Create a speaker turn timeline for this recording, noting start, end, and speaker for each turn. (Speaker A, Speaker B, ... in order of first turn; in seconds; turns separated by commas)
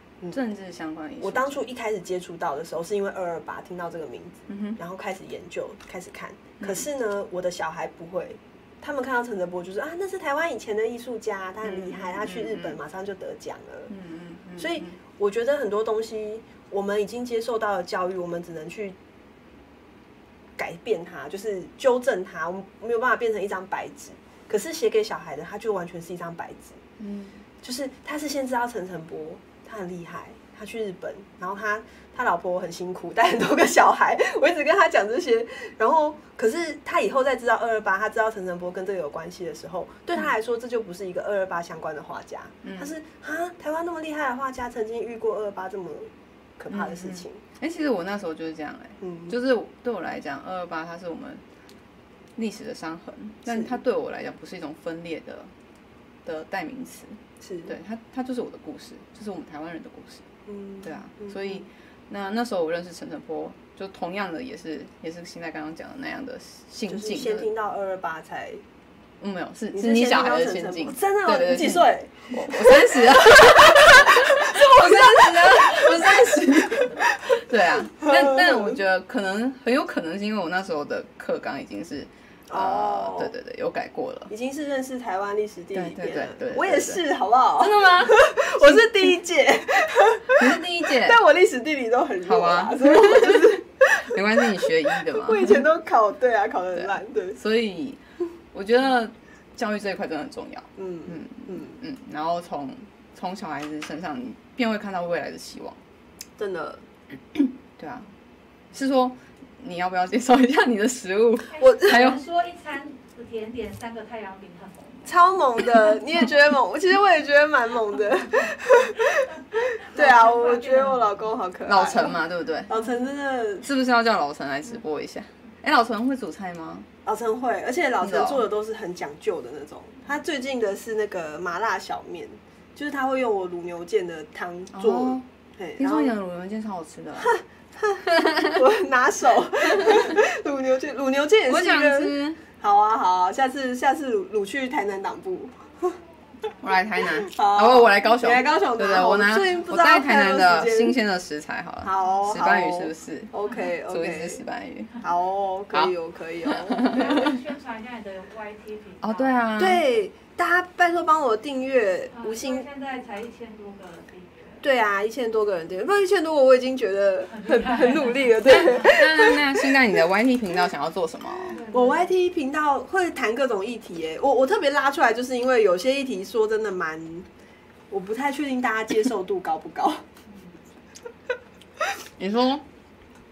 Speaker A: 0.3-1.6, Speaker B: 1.2-13.9, Speaker A: 4.5-4.8, Speaker A: 6.6-6.9, Speaker A: 11.6-12.8, Speaker A: 13.9-15.0, Speaker B: 14.6-19.0, Speaker B: 20.6-26.8, Speaker A: 27.0-27.4, Speaker B: 27.6-47.4, Speaker A: 42.6-42.9, Speaker A: 46.7-51.4, Speaker B: 49.0-49.3, Speaker A: 52.4-55.5, Speaker B: 53.5-53.8, Speaker A: 56.2-60.3, Speaker B: 57.4-57.7, Speaker B: 60.5-61.6, Speaker A: 60.8-67.5, Speaker B: 66.9-68.6, Speaker A: 69.2-84.3, Speaker B: 69.7-77.4, Speaker B: 78.0-78.8, Speaker B: 82.5-83.3, Speaker B: 84.3-97.4, Speaker A: 85.7-87.0, Speaker A: 87.6-89.1, Speaker A: 90.3-91.2, Speaker A: 92.2-95.6, Speaker A: 96.8-98.0, Speaker A: 98.5-105.8, Speaker B: 100.8-101.8, Speaker B: 106.4-106.8, Speaker A: 107.3-108.1, Speaker A: 108.7-112.2, Speaker C: 111.5-115.2, Speaker B: 111.6-112.0, Speaker B: 115.1-123.7, Speaker C: 119.1-121.2, Speaker A: 121.7-122.7, Speaker A: 123.6-126.9, Speaker B: 127.0-136.2, Speaker A: 128.0-128.4, Speaker A: 134.7-135.3, Speaker A: 135.8-137.4, Speaker B: 137.2-146.0, Speaker A: 138.2-138.6, Speaker A: 139.8-140.2, Speaker A: 141.5-142.4, Speaker A: 146.6-153.3, Speaker B: 147.0-151.0, Speaker B: 151.8-154.4, Speaker C: 153.4-153.7, Speaker A: 153.9-155.0, Speaker B: 155.0-157.3, Speaker A: 156.4-157.4, Speaker C: 156.9-159.4, Speaker A: 159.0-159.8, Speaker B: 159.6-162.7, Speaker C: 162.1-164.6, Speaker B: 164.6-169.8, Speaker C: 167.3-168.9, Speaker A: 168.5-171.6, Speaker C: 171.5-172.1, Speaker B: 171.7-177.3, Speaker B: 177.9-180.0, Speaker A: 182.2-182.6